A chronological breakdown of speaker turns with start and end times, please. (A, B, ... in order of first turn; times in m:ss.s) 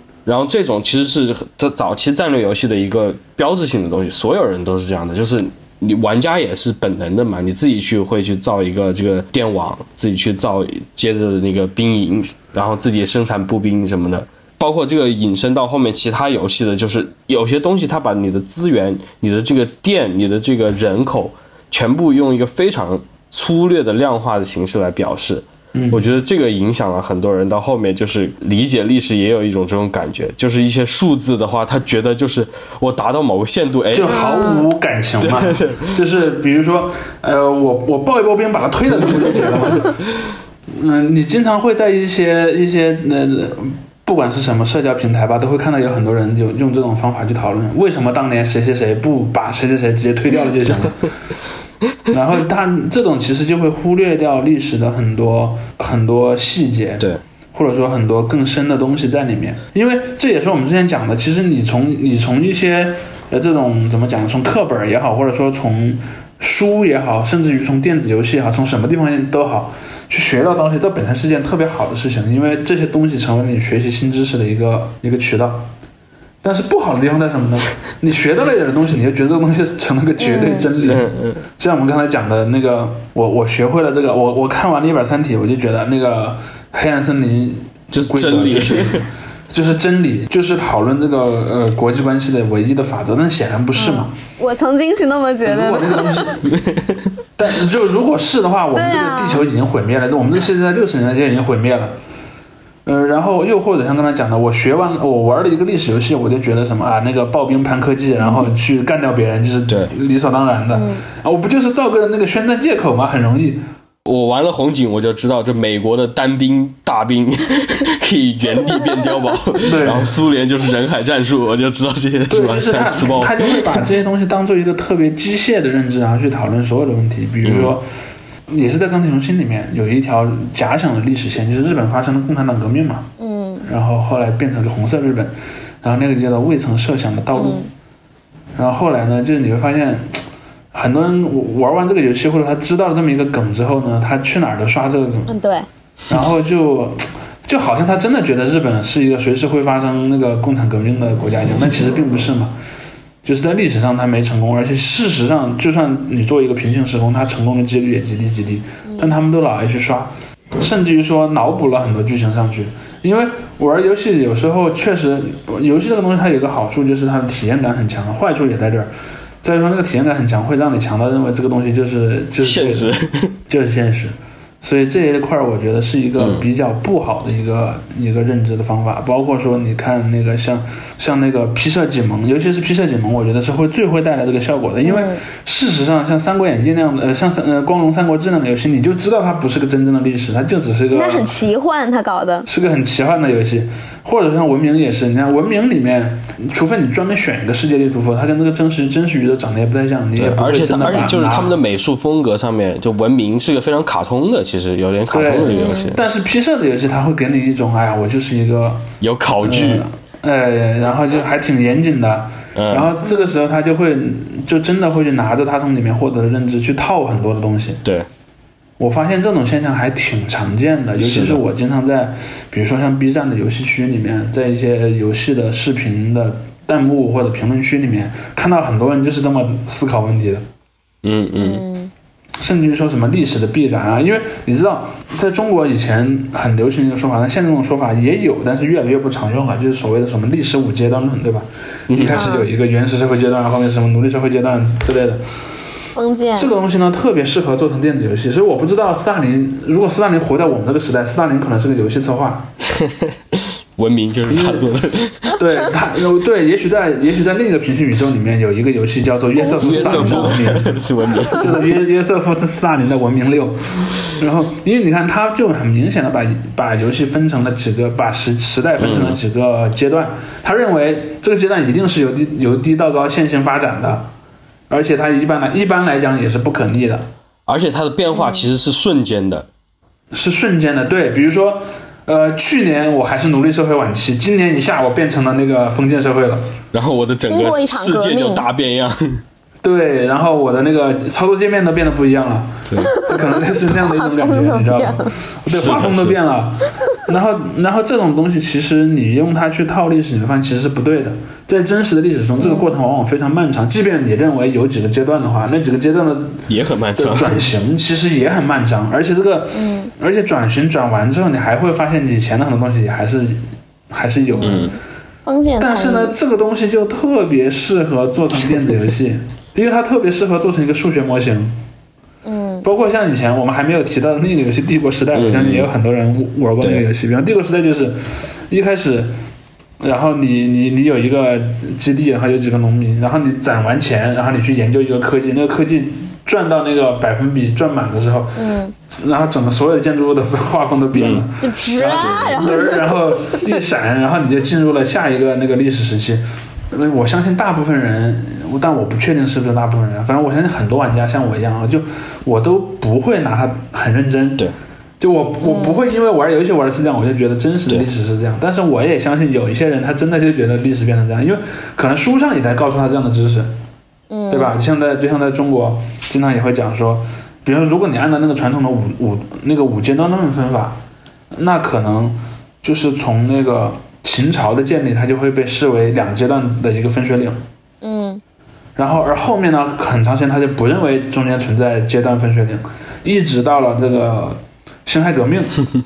0:00.2-0:34.2 A
0:25.7-0:26.0 B
0:33.9-0:39.9 B
0:34.1-0:34.6 C
0:35.2-0:36.0 A
0:39.0-0:39.9 A
0:40.7-0:51.1 B
0:52.1-1:15.7 B
1:16.4-1:34.1 B
1:20.2-1:20.7 C
1:20.8-1:21.4 A
1:27.9-1:29.0 A
1:33.7-1:36.3 C
1:35.4-1:36.4 B
1:36.5-1:37.1 A
1:37.4-1:41.9 B
1:38.7-1:39.4 C
1:42.8-1:53.6 B
1:48.2-1:48.5 C
1:50.7-1:51.0 C
1:54.0-2:03.8 A
1:59.6-2:00.1 B
2:02.3-2:07.8 B
2:07.4-2:07.7 A
2:08.5-2:13.1 B
2:13.2-2:13.6 C
2:13.6-2:17.6 B
2:17.3-2:17.7 C
2:18.6-2:25.3 B
2:25.3-2:25.7 C
2:26.1-2:32.5 B
2:33.2-2:48.9 B
2:38.8-2:39.1 C
2:49.4-2:52.9 B
2:52.4-2:53.4 A
2:53.5-3:11.3 B
2:56.2-2:56.4 A
3:04.8-3:05.2 C
3:10.9-3:12.4 C
3:12.4-3:21.5 B
3:20.2-3:26.0 A
3:25.1-3:28.9 B
3:25.5-3:25.9 C
3:29.0-3:29.8 A
3:29.4-3:37.8 B
3:32.5-3:32.9 A
3:33.0-3:33.3 C
3:38.8-3:50.4 B
3:41.0-3:41.4 A
3:51.0-3:51.6 A
3:51.4-3:51.9 C
3:52.4-4:05.2 B
4:01.9-4:02.3 A
4:02.1-4:02.5 C
4:05.9-4:06.5 C
4:06.4-4:12.5 B
4:12.7-4:15.4 A
4:14.3-4:14.6 B
4:15.3-4:20.8 B
4:19.4-4:20.4 C
4:19.6-4:21.6 A
4:21.3-4:34.1 B
4:28.8-4:29.2 A
4:34.7-4:37.0 B
4:37.5-4:39.5 A
4:38.1-4:38.4 C
4:40.1-4:46.5 B
4:46.7-4:49.2 A
4:47.3-4:48.4 C
4:49.6-5:06.4 B
4:52.7-4:52.9 A
4:52.8-4:55.1 C
4:55.5-4:56.2 A
5:02.4-5:02.7 C
5:06.5-5:07.4 A
5:07.0-5:14.7 B
5:09.5-5:09.9 C
5:14.4-5:14.7 C
5:14.4-5:14.7 A
5:15.2-5:16.1 C
5:15.6-5:21.5 B
5:22.2-5:22.6 C
5:22.6-5:28.0 B
5:25.1-5:25.7 A
5:28.5-5:29.1 B
5:29.8-5:38.4 B
5:38.4-5:38.7 C
5:38.9-5:54.4 B
5:40.9-5:41.2 A
5:41.4-5:43.5 C
5:41.9-5:42.4 A
5:55.0-6:03.5 B
5:55.4-5:55.8 C
6:04.1-6:04.5 C
6:04.3-6:10.8 B
6:11.4-6:17.4 B
6:17.8-6:18.2 C
6:18.8-6:25.6 B